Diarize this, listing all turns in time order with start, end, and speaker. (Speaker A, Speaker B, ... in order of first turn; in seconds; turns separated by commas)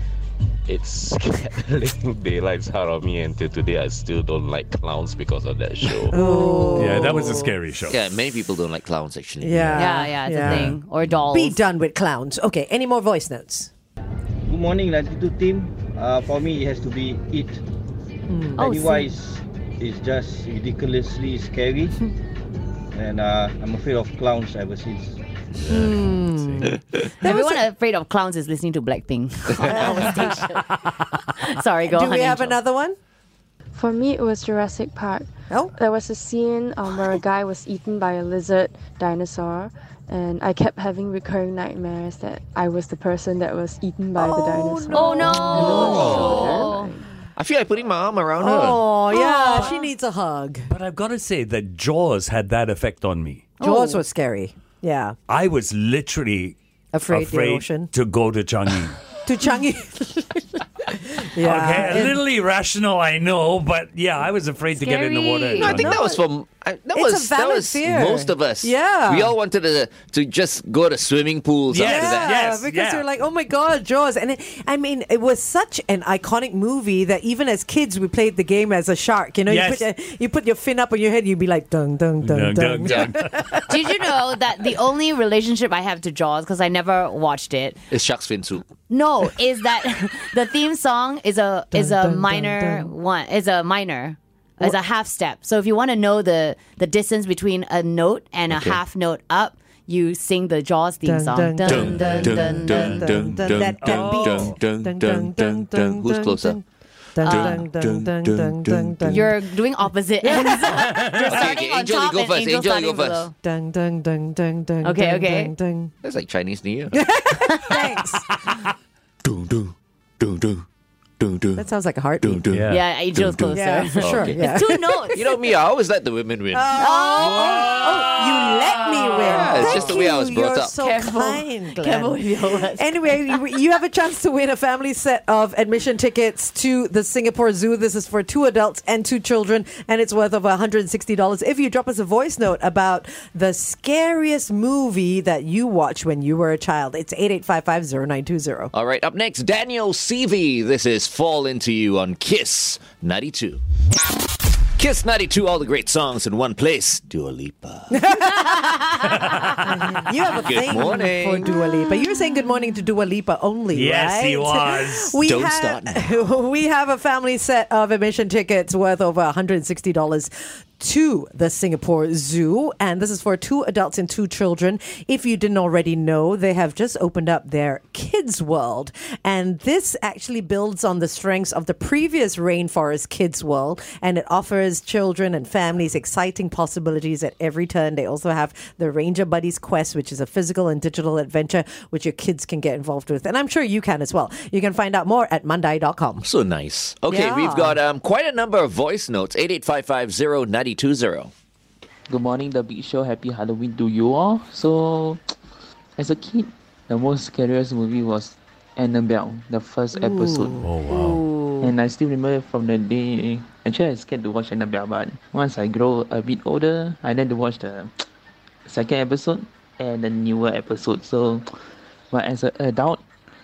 Speaker A: 0.7-6.2, Speaker B: 6.1-7.5, Speaker C: 6.2-6.7, Speaker D: 6.8-8.0, Speaker E: 7.9-9.9, Speaker B: 9.4-10.8, Speaker C: 9.8-11.6, Speaker D: 10.4-10.8, Speaker B: 11.3-13.7, Speaker F: 14.5-17.6, Speaker B: 18.3-19.1, Speaker C: 18.6-18.9, Speaker F: 18.6-22.0, Speaker F: 22.9-25.2, Speaker B: 25.7-27.6, Speaker C: 27.2-32.6, Speaker B: 29.6-30.4, Speaker B: 31.9-33.0, Speaker G: 33.8-45.9, Speaker B: 44.2-46.9, Speaker C: 44.9-46.9, Speaker E: 45.4-46.7, Speaker E: 47.4-48.8, Speaker B: 48.4-50.7, Speaker C: 49.1-49.8, Speaker D: 50.7-53.5, Speaker C: 53.6-54.0, Speaker B: 53.6-55.2, Speaker D: 55.3-56.6, Speaker B: 56.9-57.9, Speaker D: 57.1-59.0, Speaker B: 59.2-62.2, Speaker D: 61.4-66.0, Speaker C: 64.8-65.8, Speaker E: 65.6-72.5, Speaker B: 66.9-69.3, Speaker D: 71.7-73.0, Speaker B: 71.8-83.8, Speaker D: 79.5-79.9, Speaker D: 82.2-83.4, Speaker C: 83.7-87.8, Speaker E: 87.9-88.7, Speaker C: 88.9-103.1, Speaker B: 91.7-92.9, Speaker E: 98.5-98.8, Speaker B: 101.0-106.6, Speaker E: 101.7-106.6, Speaker D: 103.8-104.5, Speaker B: 107.2-109.3, Speaker C: 107.2-107.6, Speaker E: 107.3-109.1, Speaker C: 109.0-113.3, Speaker B: 110.2-111.4, Speaker E: 111.2-113.3, Speaker B: 113.4-115.9, Speaker C: 114.8-115.5, Speaker E: 116.0-117.0, Speaker B: 116.9-118.4, Speaker C: 117.5-117.7, Speaker E: 119.3-120.6, Speaker E: 121.2-121.6, Speaker B: 121.6-122.5, Speaker E: 122.2-122.7, Speaker D: 122.5-122.8, Speaker C: 122.7-125.3, Speaker E: 123.2-124.4, Speaker B: 123.5-125.0, Speaker E: 125.1-126.9, Speaker B: 126.5-148.7, Speaker C: 126.8-128.2, Speaker C: 128.7-130.1, Speaker E: 129.1-130.8, Speaker C: 130.8-133.4, Speaker E: 148.7-153.6, Speaker E: 154.8-158.1, Speaker B: 157.9-196.3, Speaker D: 159.1-159.9, Speaker E: 160.2-161.5, Speaker D: 163.7-165.2, Speaker E: 165.2-166.2, Speaker E: 196.2-201.3, Speaker B: 197.1-197.8, Speaker H: 202.1-205.2, Speaker H: 206.0-210.7, Speaker B: 209.9-211.4, Speaker D: 210.6-211.2, Speaker H: 211.6-217.9, Speaker H: 218.7-221.5, Speaker H: 222.1-223.1